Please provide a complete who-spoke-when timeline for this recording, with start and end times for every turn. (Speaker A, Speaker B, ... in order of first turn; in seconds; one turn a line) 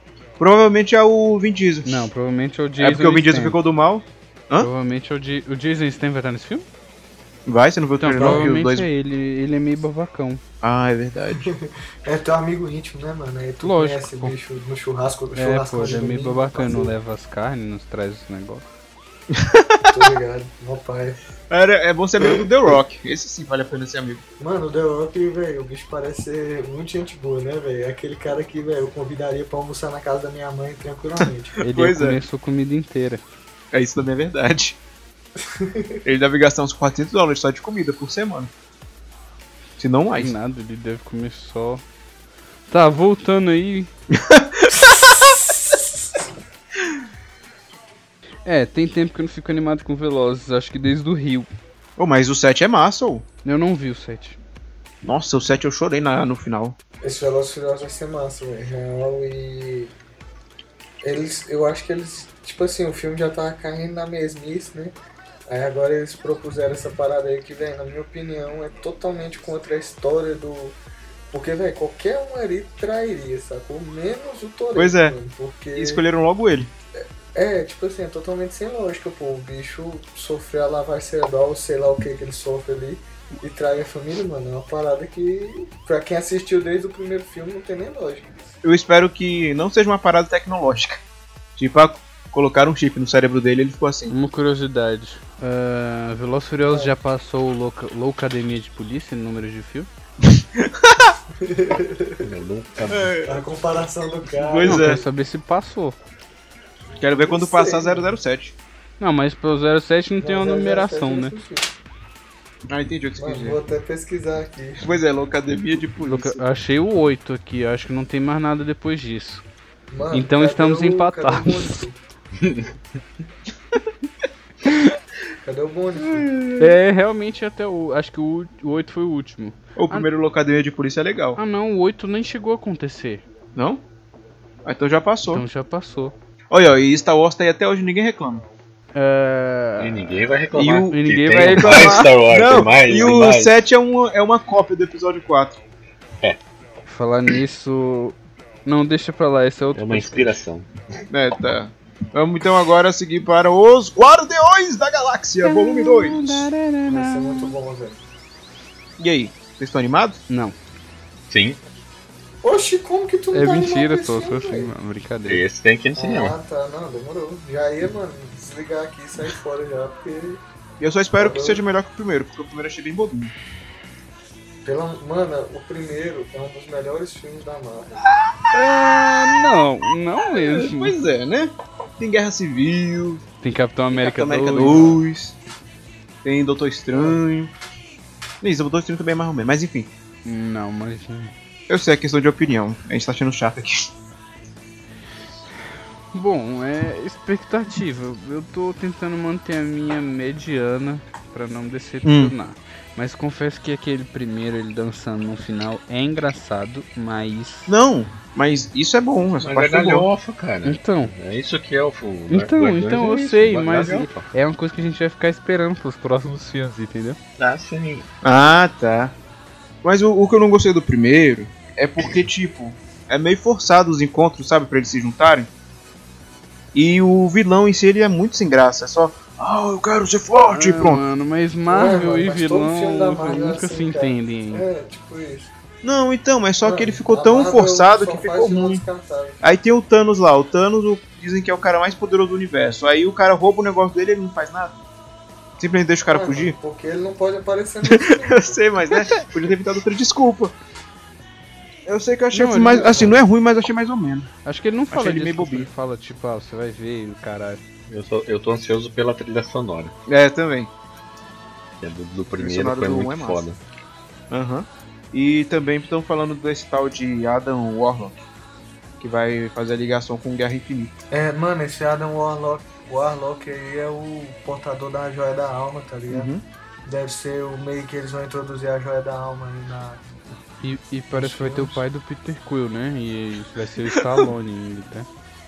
Speaker A: 0.4-2.1
Speaker B: 1.9-3.6
Speaker A: 2.8-4.7
Speaker B: 4.6-6.7
Speaker A: 7.5-8.9
Speaker B: 8.0-10.4
Speaker C: 8.2-8.5
Speaker A: 10.6-11.5
Speaker C: 11.4-16.9
Speaker B: 13.6-14.4
Speaker B: 15.3-18.6
Speaker A: 19.3-20.1
Speaker C: 19.9-21.2
Speaker A: 21.5-24.2
Speaker C: 24.4-31.6
Speaker A: 31.6-32.2
Speaker B: 31.6-33.2
Speaker A: 33.7-34.8
Speaker C: 35.5-36.0
Speaker A: 36.0-38.5
Speaker A: 39.8-40.3
Speaker B: 40.1-41.8
Speaker B: 42.7-43.9
Speaker A: 44.1-44.7
Speaker B: 48.5-51.5
Speaker A: 52.0-53.2
Speaker B: 53.4-54.4
Speaker A: 55.0-56.8
Speaker C: 57.0-60.0
Speaker C: 61.0-65.0
Speaker C: 65.5-70.8
Speaker C: 71.3-76.0
Speaker A: 74.8-75.2
Speaker A: 75.8-76.7
Speaker C: 77.0-88.4
Speaker A: 88.6-91.0
Speaker A: 91.6-94.1
Speaker B: 94.1-99.9
Speaker C: 96.7-96.9
Speaker A: 100.2-101.2
Speaker C: 101.4-102.3
Speaker D: 102.2-103.1
Speaker A: 102.9-103.5
Speaker C: 103.2-104.9
Speaker A: 104.3-105.0
Speaker B: 104.6-106.0
Speaker A: 107.0-108.5
Speaker C: 107.2-108.1
Speaker B: 109.0-111.3
Speaker C: 110.2-111.7
Speaker A: 112.7-113.6
Speaker C: 113.2-114.9
Speaker A: 114.8-116.4
Speaker B: 116.0-119.4
Speaker C: 119.9-122.0
Speaker B: 120.1-121.7
Speaker D: 122.4-122.7
Speaker C: 125.4-126.3
Speaker A: 126.0-126.8
Speaker B: 126.6-130.1
Speaker A: 129.8-131.4
Speaker B: 131.4-133.2
Speaker A: 133.6-133.8
Speaker A: 134.7-135.4
Speaker B: 135.3-136.2
Speaker A: 136.5-138.4
Speaker B: 138.9-140.2
Speaker D: 139.8-143.5
Speaker A: 140.5-145.6
Speaker B: 140.9-142.1
Speaker B: 146.9-150.4
Speaker D: 149.8-150.7
Speaker A: 151.1-156.5
Speaker B: 155.4-157.5
Speaker C: 156.9-158.0
Speaker A: 159.0-160.2
Speaker B: 160.3-160.6
Speaker D: 161.3-161.6
Speaker C: 162.4-164.7
Speaker B: 163.3-165.4
Speaker D: 165.3-166.3
Speaker C: 166.0-170.4
Speaker A: 170.8-173.3
Speaker C: 171.2-171.6
Speaker C: 174.7-178.1
Speaker B: 178.5-181.0
Speaker A: 180.2-183.2
Speaker B: 183.4-185.0
Speaker A: 183.9-185.4
Speaker A: 186.2-187.5
Speaker C: 186.9-187.2
Speaker A: 188.4-189.9
Speaker B: 190.2-191.3
Speaker A: 191.7-193.9
Speaker B: 196.1-207.7
Speaker A: 202.0-202.3
Speaker A: 207.7-210.1
Speaker D: 209.4-214.3
Speaker B: 210.6-211.1
Speaker B: 212.3-217.2
Speaker D: 217.4-218.1
Speaker A: 218.2-219.1
Speaker A: 219.8-225.5
Speaker A: 226.7-231.0
Speaker B: 230.5-234.6
Speaker C: 231.7-235.5
Speaker A: 235.8-238.8
Speaker C: 236.6-239.4
Speaker A: 239.4-244.8
Speaker A: 245.6-246.6
Speaker C: 246.1-248.6
Speaker A: 247.8-250.5
Speaker A: 251.9-254.3
Speaker B: 252.3-253.2
Speaker C: 252.6-253.2
Speaker B: 254.4-257.6
Speaker A: 254.9-255.7
Speaker D: 257.9-259.9
Speaker A: 260.1-260.7
Speaker D: 261.8-263.6
Speaker A: 262.4-263.4
Speaker A: 264.3-268.3
Speaker A: 269.0-271.0
Speaker C: 271.1-276.3
Speaker A: 276.1-276.4
Speaker C: 276.9-280.0
Speaker B: 280.6-285.1
Speaker C: 281.1-281.8
Speaker A: 283.9-284.3